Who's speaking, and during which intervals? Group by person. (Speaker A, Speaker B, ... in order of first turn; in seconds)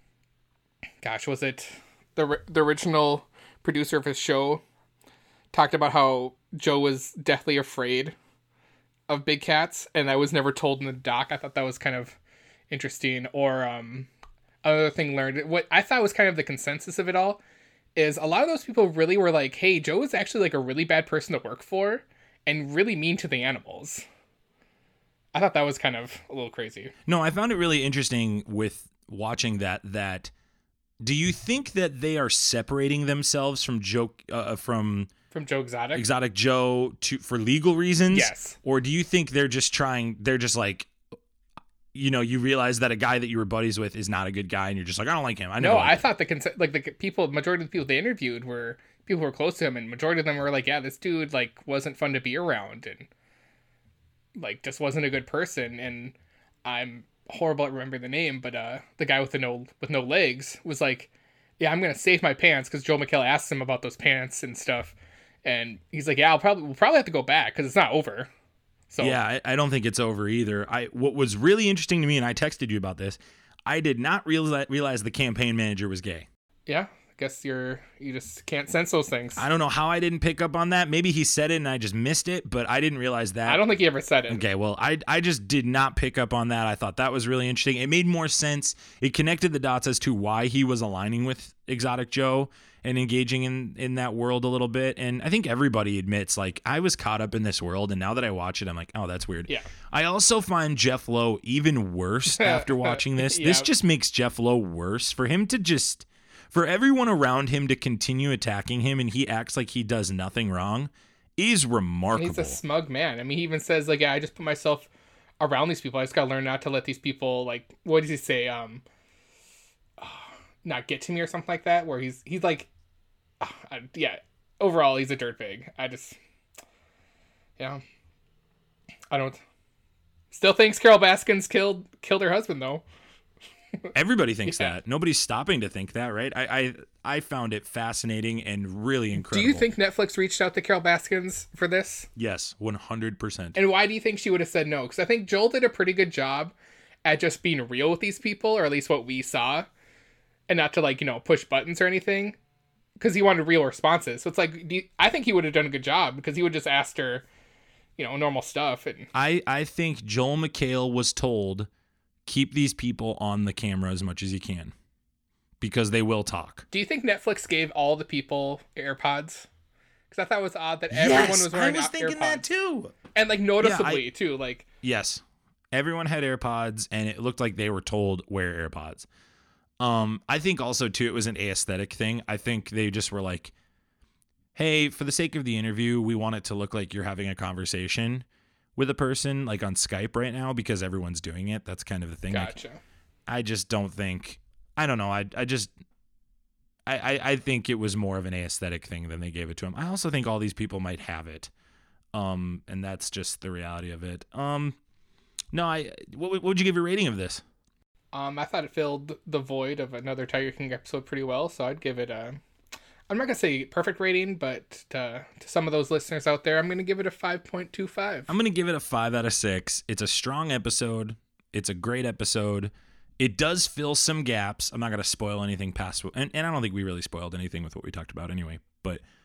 Speaker A: 1.0-4.6, 5.5-8.2, 9.1-12.2, 12.7-14.1, 14.6-17.4, 18.0-24.0, 25.3-26.9, 35.3-36.0, 38.1-38.6, 45.6-53.1, 54.4-68.3, 68.9-69.2, 76.7-79.4, 83.5-84.4, 102.4-103.7, 112.2-118.8, 120.0-122.7, 123.4-126.2, 129.1-129.4, 130.3-132.8, 134.5-134.7, 139.1-142.1, 143.6-149.7, 150.5-152.4, 153.0-157.2, 158.0-159.1, 166.7-169.5, 170.1-172.4, 173.2-174.7, 192.3-192.8, 208.1-212.4, 213.1-218.3
Speaker B: 27.1-30.3, 31.0-35.1, 35.9-40.9, 41.9-46.1, 69.0-76.3, 79.4-83.6, 84.3-112.6, 133.9-139.7, 142.2-143.6, 159.2-161.7, 162.3-164.7, 165.6-166.7, 170.9-172.9, 173.6-174.1, 174.8-179.1, 179.8-183.5, 184.6-188.2, 188.8-192.5, 193.3-195.7, 196.9-201.5, 202.1-204.8, 205.5-207.4, 218.3-229.0